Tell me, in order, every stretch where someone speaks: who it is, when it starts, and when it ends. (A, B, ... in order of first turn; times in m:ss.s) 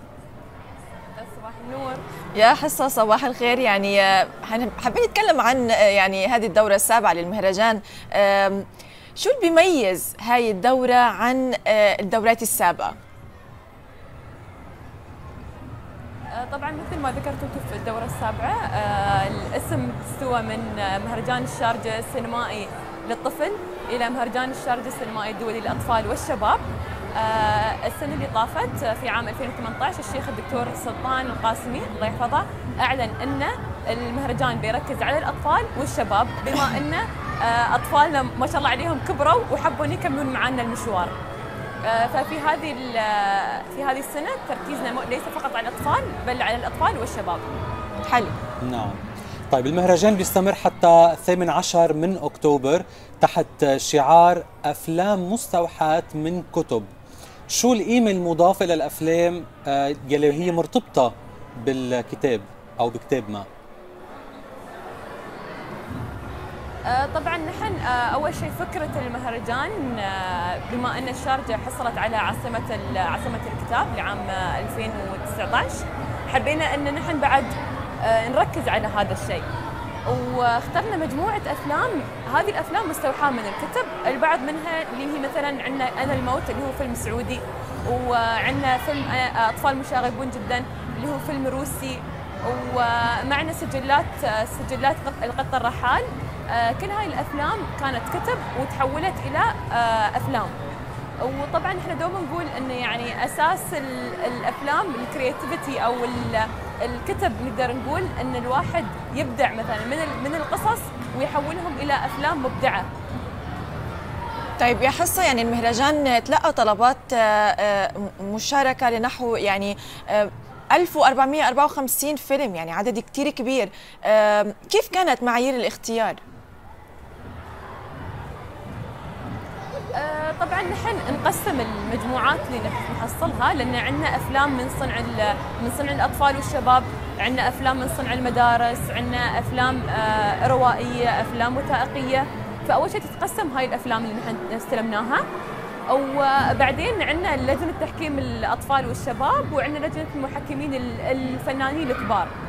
0:01.2-0:02.0 A
0:02.4-0:08.6 B
0:09.2-0:13.0 B
0:16.3-0:41.2 A
0:41.8-0:47.4 A
0:48.0-0:48.3 B
0:48.6-0:56.9 C
0:57.5-1:03.5 C
1:06.8-1:19.5 A
1:20.1-1:40.6 A
1:41.2-1:52.9 A
1:54.6-2:06.2 B
2:09.9-2:25.2 A
2:25.9-2:32.3 A